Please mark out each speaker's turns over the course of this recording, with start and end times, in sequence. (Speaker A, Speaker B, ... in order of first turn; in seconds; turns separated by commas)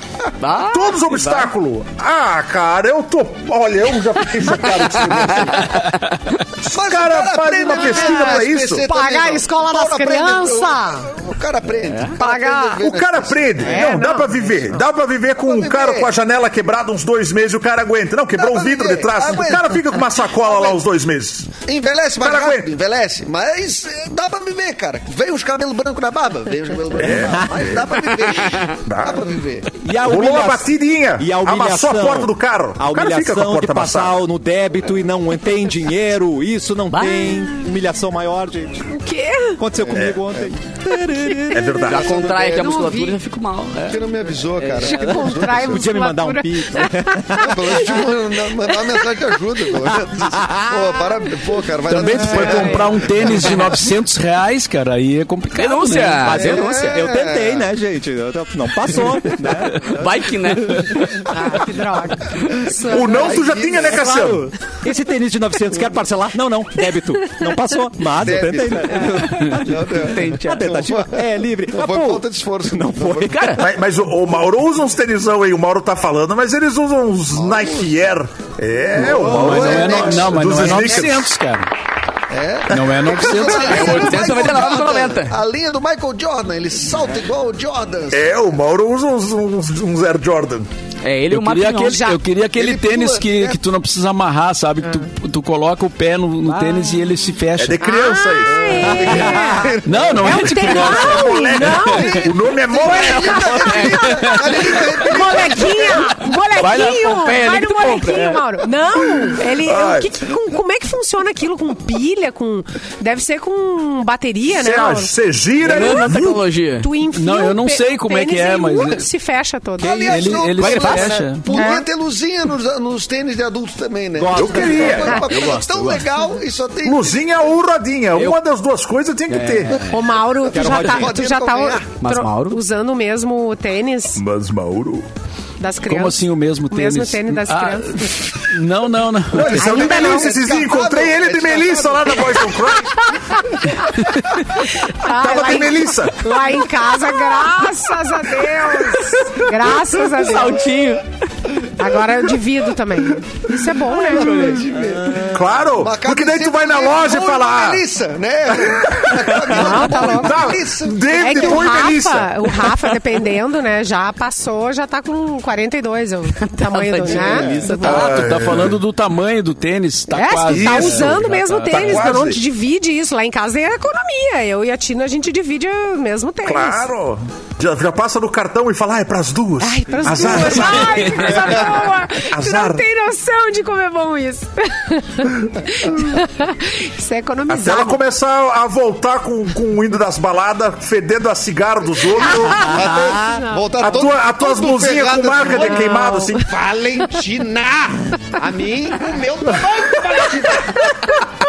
Speaker A: 0.4-1.5, Speaker B: 0.6-5.8, Speaker A: 5.4-6.0, Speaker B: 6.6-8.8, Speaker C: 6.7-14.0, Speaker D: 7.8-11.1, Speaker A: 11.9-12.2, Speaker D: 12.2-12.9, Speaker B: 12.8-21.5, Speaker D: 13.6-14.4, Speaker C: 15.4-16.1, Speaker C: 18.3-20.8, Speaker C: 21.6-29.7, Speaker B: 22.2-22.7, Speaker B: 27.0-28.0, Speaker B: 28.8-29.3, Speaker E: 29.8-38.9, Speaker B: 29.9-34.2, Speaker A: 36.9-37.5, Speaker D: 38.9-39.6, Speaker E: 39.6-41.6, Speaker C: 39.8-40.5, Speaker B: 39.9-40.2, Speaker B: 41.5-42.2, Speaker A: 41.7-44.0, Speaker C: 41.9-43.1, Speaker D: 42.6-43.2, Speaker C: 43.9-45.9, Speaker E: 44.6-48.0, Speaker D: 44.8-47.8, Speaker C: 47.4-53.4, Speaker E: 49.9-50.7, Speaker F: 51.9-56.4, Speaker D: 52.3-53.1, Speaker A: 55.5-57.0, Speaker E: 56.2-61.1, Speaker C: 56.3-57.7, Speaker A: 59.8-61.3, Speaker D: 61.2-63.3, Speaker C: 62.7-64.0, Speaker B: 62.8-64.5, Speaker E: 63.7-73.5, Speaker C: 68.1-73.5, Speaker A: 69.9-70.7, Speaker A: 73.3-73.7, Speaker B: 73.6-81.3, Speaker C: 77.3-78.0, Speaker C: 78.9-80.8, Speaker F: 79.2-81.7, Speaker C: 82.3-88.3, Speaker F: 82.7-84.2, Speaker A: 83.2-85.4, Speaker B: 88.1-90.7, Speaker A: 91.0-92.1, Speaker F: 91.3-97.9, Speaker D: 91.9-92.2, Speaker C: 92.5-93.6, Speaker E: 96.5-96.8, Speaker B: 97.6-98.8, Speaker D: 97.8-120.5, Speaker C: 98.5-106.0, Speaker E: 99.0-99.5, Speaker F: 99.8-101.3, Speaker B: 100.6-103.5, Speaker A: 103.6-104.2, Speaker A: 106.5-108.4, Speaker B: 109.2-110.2, Speaker B: 114.5-116.4, Speaker A: 115.7-116.9, Speaker F: 117.1-119.1, Speaker E: 119.8-120.7, Speaker C: 119.8-127.4, Speaker F: 120.1-121.5, Speaker A: 120.6-121.1, Speaker D: 121.5-121.8, Speaker E: 124.2-125.1, Speaker B: 124.3-125.2, Speaker A: 124.9-126.1, Speaker B: 126.8-129.9, Speaker A: 129.3-129.8, Speaker D: 129.8-134.2, Speaker C: 130.5-131.9, Speaker E: 130.5-131.2, Speaker A: 132.0-132.6, Speaker B: 134.2-135.1, Speaker D: 135.6-138.4, Speaker F: 135.9-139.6, Speaker C: 139.3-142.8, Speaker B: 139.3-143.1, Speaker D: 139.6-140.4, Speaker D: 144.6-150.8, Speaker B: 145.1-146.4, Speaker A: 150.2-151.2, Speaker D: 151.8-154.7, Speaker C: 153.9-161.7, Speaker A: 154.0-154.7, Speaker E: 154.8-155.5, Speaker B: 155.3-157.9, Speaker B: 158.6-162.5, Speaker D: 159.5-160.6, Speaker D: 161.1-168.2, Speaker A: 166.7-167.9, Speaker E: 167.1-168.3, Speaker F: 167.8-172.2, Speaker B: 167.9-168.8, Speaker D: 170.1-176.9, Speaker B: 170.4-172.4, Speaker B: 176.4-182.8, Speaker D: 179.6-188.0, Speaker B: 187.5-192.7, Speaker D: 192.3-193.9, Speaker C: 192.4-201.3, Speaker B: 193.8-196.5, Speaker D: 195.6-196.4